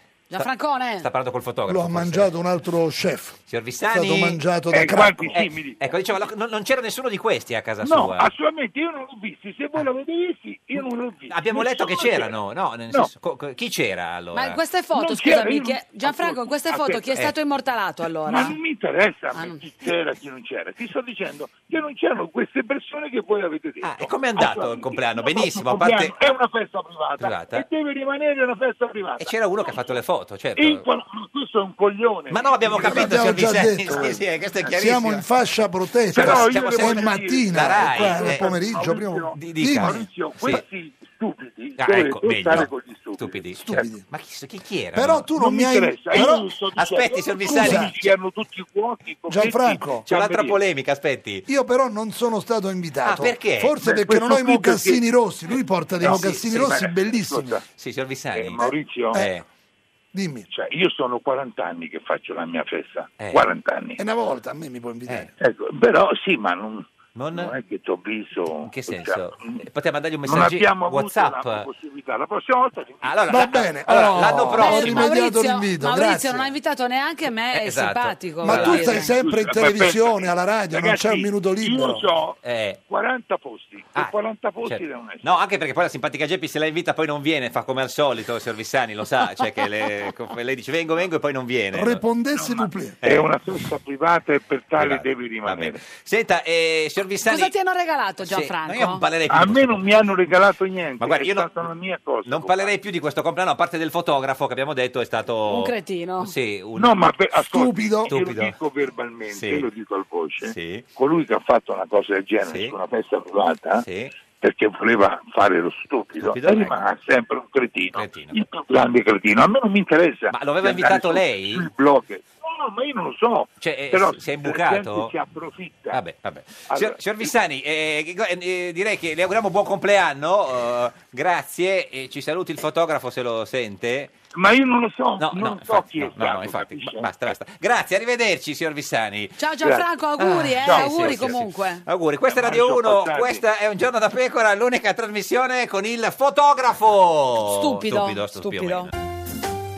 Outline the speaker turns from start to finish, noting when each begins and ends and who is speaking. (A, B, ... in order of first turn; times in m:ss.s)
0:00.3-0:01.1 A
0:01.0-0:02.3 B
0:01.7-0:03.4 C
0:03.5-0:04.4 B
0:03.9-0:05.5 C
0:04.7-0:05.8 D
0:05.3-0:08.3 B
0:07.8-0:12.4 D
0:11.3-0:14.6 B
0:14.3-0:18.6 A
0:14.9-0:17.1 D
0:18.2-0:30.0 D
0:19.3-0:19.6 A
0:23.8-0:26.2 B
0:27.2-0:27.7 B
0:29.2-0:30.9 B
0:30.6-0:34.7 D
0:32.3-0:35.3 B
0:32.8-0:40.1 C
0:36.1-0:44.0 D
0:36.1-0:40.6 B
0:41.8-0:45.4 B
0:43.6-0:44.1 C
0:45.0-0:46.5 C
0:45.4-0:50.6 D
0:46.1-0:48.2 B
0:47.4-0:48.0 C
0:49.3-0:50.1 C
0:49.9-0:51.5 B
0:51.5-0:57.6 C
0:53.0-0:53.8 B
0:53.8-0:55.0 D
0:55.5-0:57.0 B
0:56.0-0:57.6 D
0:57.7-0:59.4 B
0:58.3-0:59.2 D
1:00.1-1:00.5 C
1:00.5-1:04.0 D
1:03.2-1:03.5 B
1:04.0-1:05.3 C
1:05.1-1:05.3 B
1:05.4-1:09.6 D
1:07.2-1:07.6 B
1:08.6-1:11.7 B
1:10.3-1:13.1 D
1:13.0-1:15.1 B
1:13.3-1:16.5 C
1:14.6-1:19.2 A
1:17.5-1:19.2 B
1:18.4-1:22.0 C
1:19.1-1:25.3 D
1:22.4-1:22.8 B
1:23.9-1:32.0 B
1:31.7-1:33.0 C
1:32.4-1:35.8 D
1:33.0-1:33.3 B
1:34.8-1:37.5 B
1:37.2-1:39.0 A
1:38.2-1:40.2 B
1:39.3-1:42.7 D
1:41.0-1:41.7 B
1:42.2-1:47.1 B
1:45.5-1:46.3 A
1:46.8-1:53.8 D
1:47.4-1:48.2 C
1:48.1-1:48.6 B
1:49.3-1:49.7 B
1:50.4-1:50.9 B
1:52.4-1:52.8 B
1:53.8-1:54.1 B
1:54.4-2:06.0 D
1:56.2-1:56.8 B
1:57.9-1:58.4 B
2:00.3-2:01.7 B
2:03.6-2:05.2 B
2:05.9-2:14.1 B
2:06.7-2:07.3 D
2:14.4-2:17.1 D
2:15.2-2:19.4 B
2:19.4-2:21.8 A
2:20.2-2:28.9 B
2:20.6-2:21.4 D
2:22.3-2:23.4 D
2:27.4-2:28.9 A